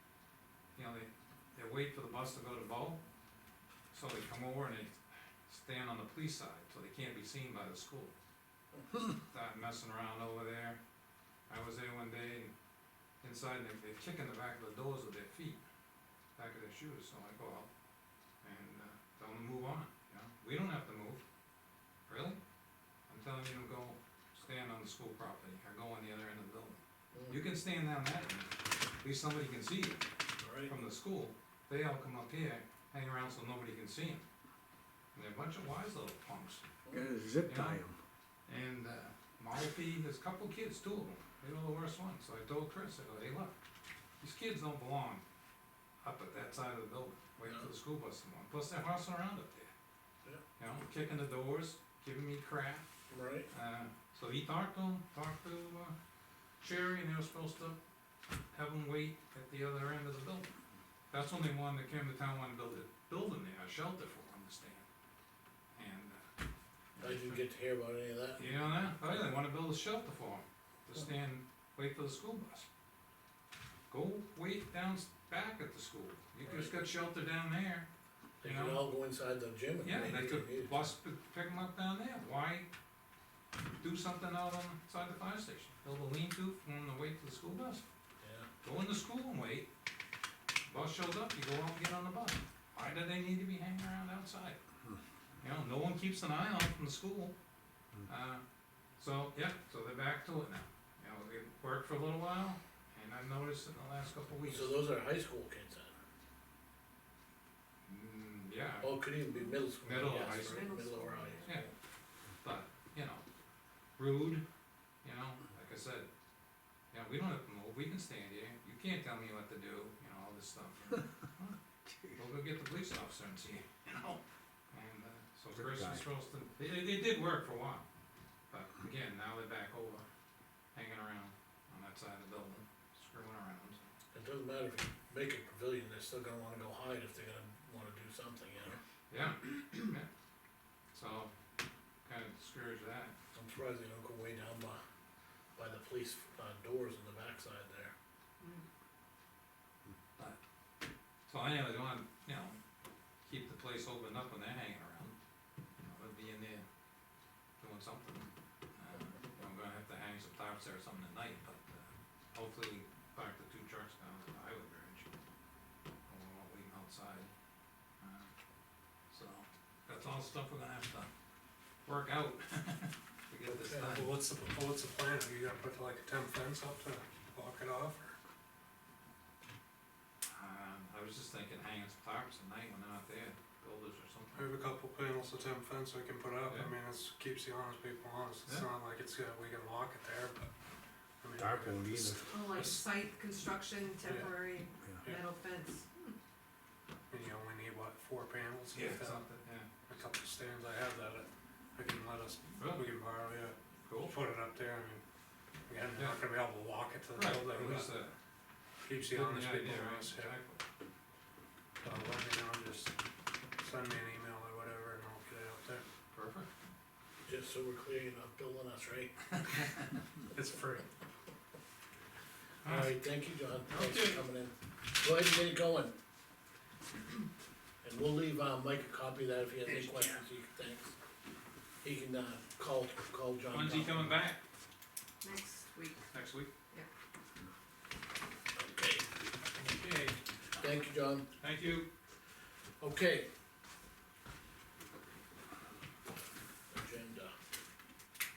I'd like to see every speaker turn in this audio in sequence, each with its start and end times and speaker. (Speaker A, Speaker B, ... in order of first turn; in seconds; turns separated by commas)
Speaker A: 0.7-3.0, Speaker A: 3.9-8.1, Speaker A: 9.3-10.8, Speaker A: 11.5-12.5, Speaker A: 13.2-15.6, Speaker A: 16.4-17.7, Speaker A: 18.4-21.2, Speaker A: 22.1-22.4, Speaker A: 23.1-28.5, Speaker B: 27.1-27.4, Speaker A: 29.0-30.0, Speaker B: 30.4-30.7, Speaker A: 30.6-34.2, Speaker A: 35.1-36.6, Speaker C: 36.9-38.0, Speaker A: 37.4-37.8, Speaker A: 38.5-43.5, Speaker A: 44.2-45.2, Speaker A: 46.0-49.7, Speaker A: 50.6-52.9, Speaker B: 53.1-53.5, Speaker A: 53.5-55.9, Speaker A: 56.6-57.8, Speaker A: 58.5-60.5, Speaker A: 61.1-64.8, Speaker A: 65.7-66.2, Speaker A: 67.0-67.4, Speaker B: 67.0-68.5, Speaker A: 68.3-72.7, Speaker A: 73.9-77.9, Speaker B: 76.4-76.7, Speaker B: 78.4-80.9, Speaker A: 78.4-78.9, Speaker A: 79.8-82.7, Speaker A: 83.8-87.8, Speaker B: 88.2-88.5, Speaker A: 88.6-89.7, Speaker A: 90.7-94.6, Speaker A: 95.4-97.3, Speaker A: 98.0-98.4, Speaker A: 99.0-104.8, Speaker B: 104.5-105.9, Speaker A: 107.8-109.0, Speaker B: 108.8-111.7, Speaker A: 109.8-110.7, Speaker D: 110.2-111.5, Speaker A: 112.4-113.2, Speaker A: 114.0-114.4, Speaker A: 115.0-116.1, Speaker A: 116.9-127.8, Speaker C: 125.5-126.0, Speaker A: 128.5-130.0, Speaker A: 130.7-133.8, Speaker B: 134.1-138.8, Speaker A: 139.1-140.1, Speaker A: 140.9-141.3, Speaker A: 142.0-143.1, Speaker B: 143.3-144.8, Speaker B: 145.6-147.9, Speaker A: 151.3-152.6, Speaker A: 153.2-155.2, Speaker A: 155.8-156.6, Speaker A: 157.6-165.1, Speaker A: 166.1-167.3, Speaker A: 168.0-168.3, Speaker A: 169.1-171.1, Speaker A: 171.8-174.1, Speaker E: 173.5-178.2, Speaker B: 173.7-173.9, Speaker A: 180.3-184.4, Speaker E: 184.3-190.5, Speaker E: 191.2-192.8, Speaker C: 191.4-192.3, Speaker D: 192.3-196.1, Speaker E: 194.1-194.3, Speaker E: 197.1-199.2, Speaker A: 198.7-199.7, Speaker E: 199.9-205.0, Speaker A: 202.6-202.9, Speaker A: 203.8-204.1, Speaker E: 205.7-207.9, Speaker A: 205.9-206.2, Speaker A: 207.2-208.1, Speaker E: 208.8-210.3, Speaker A: 209.0-210.6, Speaker E: 211.8-212.9, Speaker E: 213.6-215.8, Speaker A: 216.1-216.5, Speaker B: 217.2-219.1, Speaker A: 219.3-219.8, Speaker E: 220.3-220.8, Speaker A: 222.6-223.0, Speaker B: 222.7-225.9, Speaker A: 223.7-224.2, Speaker B: 227.8-230.9, Speaker D: 229.7-230.2, Speaker B: 231.8-234.2, Speaker A: 233.5-234.4, Speaker D: 235.2-236.1, Speaker A: 236.1-236.5, Speaker B: 238.6-239.1, Speaker B: 239.6-241.2, Speaker A: 241.4-241.9, Speaker B: 242.8-243.3, Speaker B: 246.7-247.3